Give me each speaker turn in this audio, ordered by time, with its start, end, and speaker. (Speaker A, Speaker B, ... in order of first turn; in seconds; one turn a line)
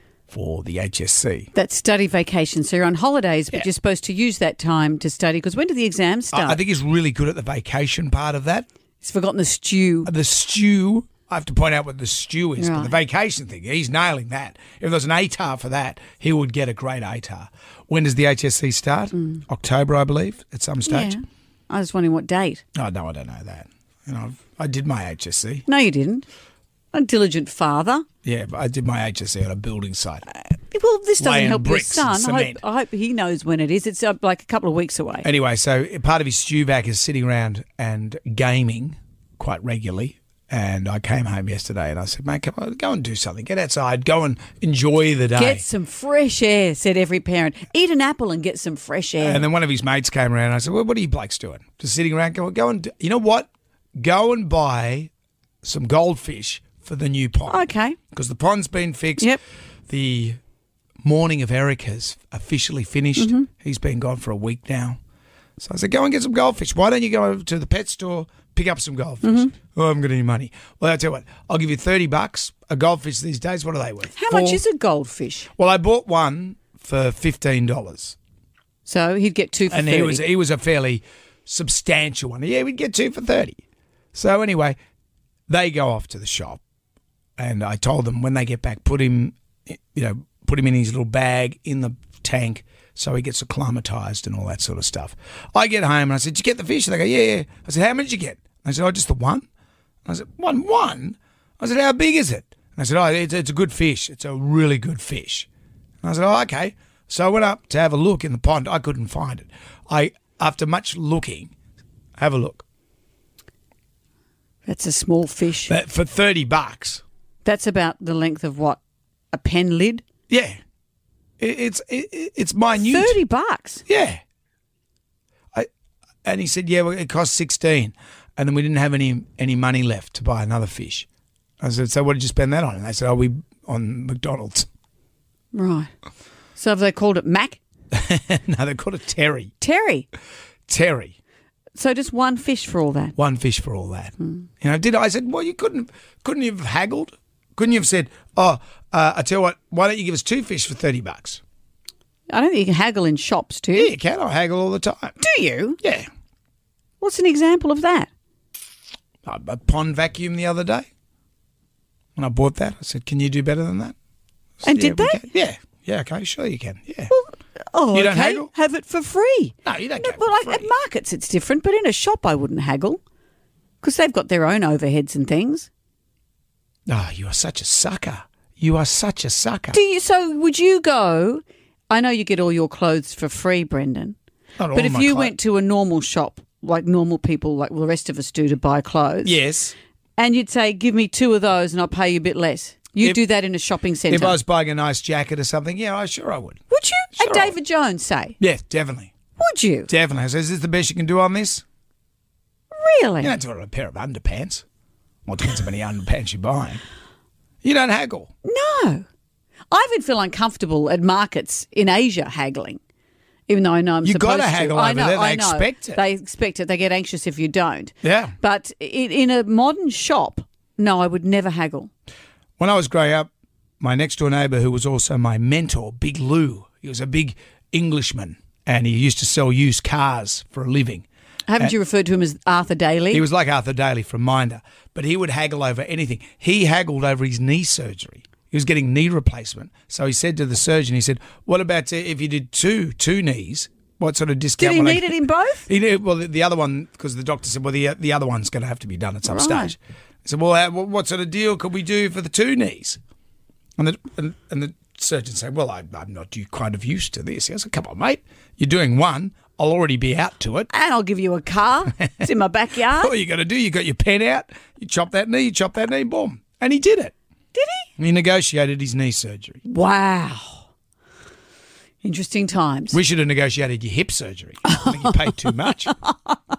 Speaker A: 0.3-1.5
Speaker B: 1.5-6.6
Speaker A: 6.3-8.7
Speaker B: 9.0-10.1
Speaker A: 10.1-21.1
Speaker B: 12.6-13.0
Speaker B: 19.1-19.4
Speaker B: 20.9-22.6
Speaker A: 22.7-25.6
Speaker B: 25.6-26.3
Speaker B: 26.9-28.0
Speaker A: 28.2-30.2
Speaker B: 30.5-35.3
Speaker A: 31.2-32.6
Speaker A: 35.2-45.6
Speaker B: 45.3-49.4
Speaker A: 49.2-55.1
Speaker A: 55.6-59.3
Speaker B: 57.5-58.0
Speaker A: 59.9-60.4
Speaker A: 61.0-65.0
Speaker B: 63.2-63.5
Speaker A: 65.6-74.6
Speaker B: 69.2-69.5
Speaker B: 74.1-75.5
Speaker A: 75.5-78.2
Speaker B: 78.8-80.2
Speaker A: 79.7-83.6
Speaker A: 84.1-84.8
Speaker A: 85.5-86.6
Speaker A: 87.4-99.5
Speaker A: 100.0-105.5
Speaker A: 106.0-111.5
Speaker A: 112.2-112.6
Speaker B: 114.7-115.7
Speaker A: 115.7-117.0
Speaker B: 117.4-118.8
Speaker B: 119.3-120.0
Speaker A: 120.3-120.6
Speaker A: 121.4-123.2
Speaker B: 122.7-123.8
Speaker A: 123.9-124.2
Speaker A: 126.2-131.1
Speaker A: 131.6-134.7
Speaker B: 135.5-135.9
Speaker B: 136.6-137.6
Speaker A: 137.9-139.5
Speaker B: 139.6-140.1
Speaker A: 140.7-141.2
Speaker B: 141.8-143.2
Speaker A: 143.2-151.4
Speaker B: 152.3-153.9
Speaker A: 153.7-155.2
Speaker B: 155.2-155.8
Speaker A: 155.8-156.1
Speaker B: 157.0-158.1
Speaker A: 159.2-160.9
Speaker A: 162.2-163.9
Speaker A: 164.6-167.1
Speaker B: 164.6-165.3
Speaker B: 167.1-173.0
Speaker A: 167.9-168.5
Speaker A: 169.6-170.7
Speaker B: 173.8-175.7
Speaker A: 176.9-179.8
Speaker B: 179.7-184.1
Speaker A: 184.6-185.3
Speaker B: 184.7-189.4
Speaker A: 189.2-189.7
Speaker B: 190.2-194.4
Speaker A: 194.1-196.6
Speaker B: 196.7-198.4
Speaker A: 197.2-197.6
Speaker A: 198.4-199.1
Speaker B: 199.4-199.9
Speaker A: 199.9-201.6
Speaker B: 202.7-203.3
Speaker A: 203.2-204.6
Speaker A: 205.2-206.8
Speaker A: 207.6-208.3
Speaker B: 208.4-209.0
Speaker B: 209.7-212.8
Speaker B: 213.5-221.9
Speaker A: 214.0-216.0
Speaker A: 218.0-218.3
Speaker A: 222.6-223.3
Speaker A: 223.8-231.1
Speaker B: 231.5-233.2
Speaker A: 233.1-253.0
Speaker B: 244.6-245.7
Speaker B: 249.2-249.7
Speaker A: 253.8-260.7
Speaker B: 260.7-263.1
Speaker A: 262.9-267.1
Speaker B: 267.5-267.9
Speaker A: 268.0-269.6
Speaker B: 269.6-270.6
Speaker B: 272.0-273.0
Speaker A: 272.9-275.9
Speaker B: 274.6-276.4